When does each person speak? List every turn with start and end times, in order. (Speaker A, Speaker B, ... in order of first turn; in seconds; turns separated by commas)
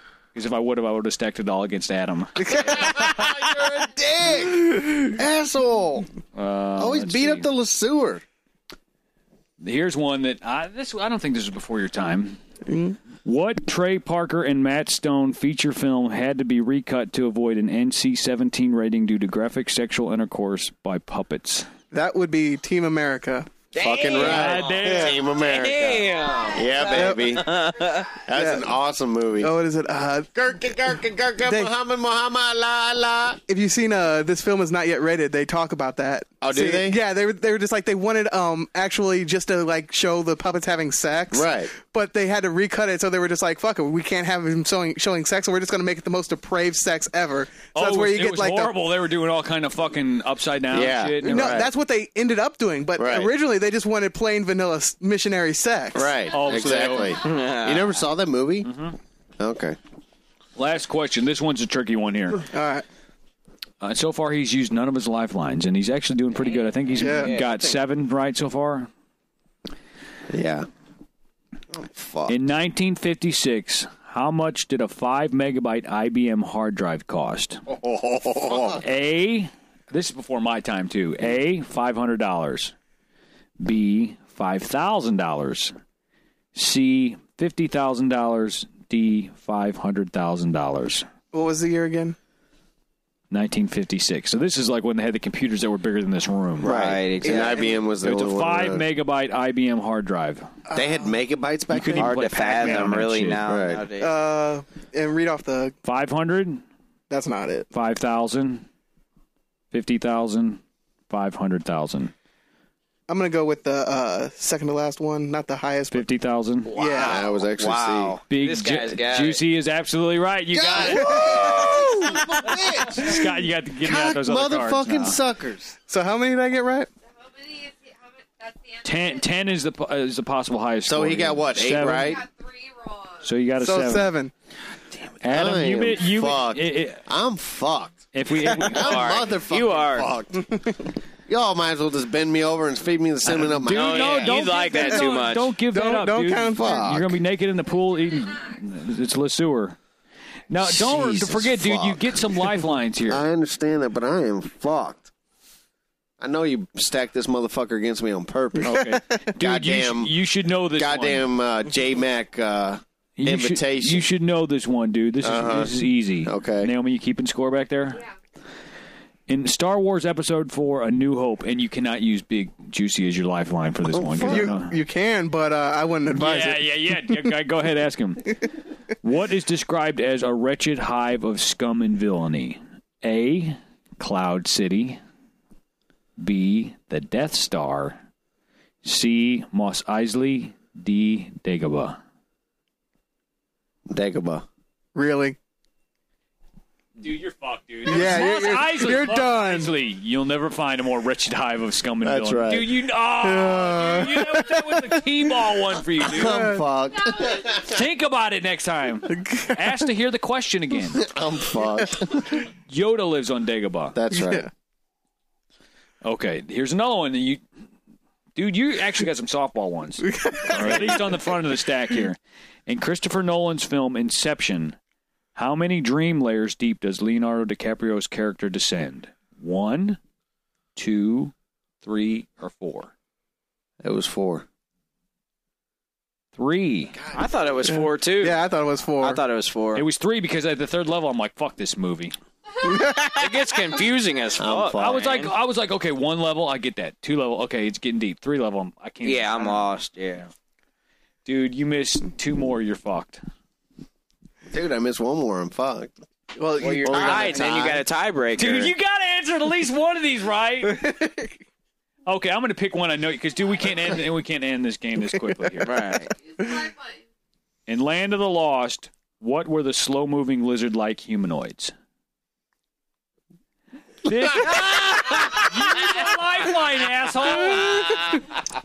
Speaker A: 0.3-2.5, Speaker B: 2.4-3.3, Speaker C: 2.5-6.1, Speaker A: 6.3-7.5, Speaker C: 6.8-8.2, Speaker A: 9.6-12.4, Speaker B: 12.7-13.0, Speaker A: 13.2-21.7, Speaker B: 21.9-23.6, Speaker D: 23.7-28.1, Speaker C: 23.8-29.5, Speaker A: 24.2-25.2, Speaker B: 24.8-25.2, Speaker B: 26.9-27.4, Speaker B: 28.3-28.6, Speaker B: 29.4-30.3, Speaker C: 30.3-33.4, Speaker B: 31.4-31.7, Speaker B: 33.5-48.7, Speaker C: 36.4-37.0, Speaker C: 41.3-41.7, Speaker A: 47.7-51.6, Speaker C: 50.7-51.7, Speaker B: 51.2-56.1, Speaker C: 53.0-53.3, Speaker C: 55.9-58.7, Speaker A: 56.3-57.1, Speaker D: 57.2-57.9, Speaker A: 58.6-59.0, Speaker C: 59.4-59.8, Speaker A: 60.5-62.5, Speaker B: 62.5-62.8, Speaker A: 63.8-68.9, Speaker B: 67.0-67.3, Speaker D: 67.0-67.7, Speaker C: 70.3-70.7, Speaker C: 71.7-72.3, Speaker A: 72.3-77.6, Speaker C: 77.7-78.8, Speaker A: 78.5-82.7, Speaker A: 83.6-85.7, Speaker A: 86.5-91.0, Speaker B: 91.3-92.2, Speaker A: 93.3-96.7, Speaker D: 96.6-97.7, Speaker C: 96.6-98.8, Speaker B: 97.2-97.7, Speaker A: 98.0-100.5, Speaker B: 100.7-101.0, Speaker C: 100.7-102.9, Speaker A: 101.7-103.4, Speaker D: 102.0-104.2, Speaker C: 103.4-103.8, Speaker B: 104.0-105.7, Speaker A: 105.8-106.6, Speaker B: 107.1-107.7, Speaker A: 107.7-108.7, Speaker A: 109.7-112.1, Speaker B: 113.1-116.1, Speaker A: 115.9-116.7, Speaker D: 116.7-119.4, Speaker B: 116.7-117.2, Speaker C: 117.0-118.2, Speaker A: 118.3-121.5, Speaker C: 120.5-123.3, Speaker B: 120.9-122.2, Speaker A: 122.8-125.2, Speaker C: 123.8-125.7, Speaker B: 125.9-126.9, Speaker E: 127.2-128.7, Speaker A: 128.8-132.2, Speaker C: 130.8-132.3, Speaker E: 132.4-133.0, Speaker A: 133.2-134.1, Speaker B: 133.6-134.3, Speaker A: 135.2-137.0, Speaker C: 135.2-144.4, Speaker A: 138.1-139.1, Speaker D: 138.7-140.1, Speaker A: 143.3-149.8, Speaker D: 143.7-145.5, Speaker B: 145.7-146.8, Speaker C: 146.4-147.2, Speaker A: 150.5-153.2, Speaker C: 150.6-152.5, Speaker C: 153.1-155.1, Speaker C: 156.2-160.2, Speaker A: 158.6-161.3, Speaker C: 160.7-164.1, Speaker A: 163.2-168.1, Speaker C: 165.2-166.7, Speaker A: 169.3-174.8, Speaker C: 173.8-174.5, Speaker B: 174.2-177.3, Speaker A: 176.1-178.5, Speaker A: 179.0-185.0, Speaker A: 186.2-188.0, Speaker A: 188.8-192.0, Speaker C: 193.9-194.4, Speaker B: 194.9-195.3, Speaker A: 197.0-206.5, Speaker B: 197.8-199.7, Speaker C: 202.0-202.8, Speaker B: 203.2-205.0, Speaker C: 206.0-207.8, Speaker B: 206.2-206.6, Speaker A: 207.5-211.1, Speaker B: 209.1-209.6, Speaker C: 210.9-212.4, Speaker A: 212.7-213.9, Speaker C: 213.9-214.5, Speaker B: 214.1-214.5, Speaker A: 216.0-217.4, Speaker A: 218.3-224.8, Speaker B: 220.1-221.2, Speaker C: 220.5-220.9, Speaker A: 225.3-230.0, Speaker A: 230.8-232.9, Speaker C: 233.8-234.4, Speaker A: 236.3-237.0, Speaker C: 236.9-237.2, Speaker D: 237.1-238.4, Speaker B: 237.8-239.2, Speaker D: 239.0-239.8, Speaker A: 239.7-242.2, Speaker B: 242.6-243.3, Speaker D: 243.2-245.3, Speaker C: 244.4-245.1, Speaker A: 244.7-249.7, Speaker D: 249.0-250.3, Speaker A: 251.2-253.2, Speaker C: 254.5-255.9, Speaker B: 256.4-257.5, Speaker D: 256.6-258.7, Speaker C: 256.8-257.8, Speaker A: 258.4-260.9, Speaker B: 260.7-261.3, Speaker A: 262.1-265.8, Speaker D: 265.6-266.1, Speaker B: 266.4-266.7, Speaker A: 267.7-271.7, Speaker A: 274.0-278.2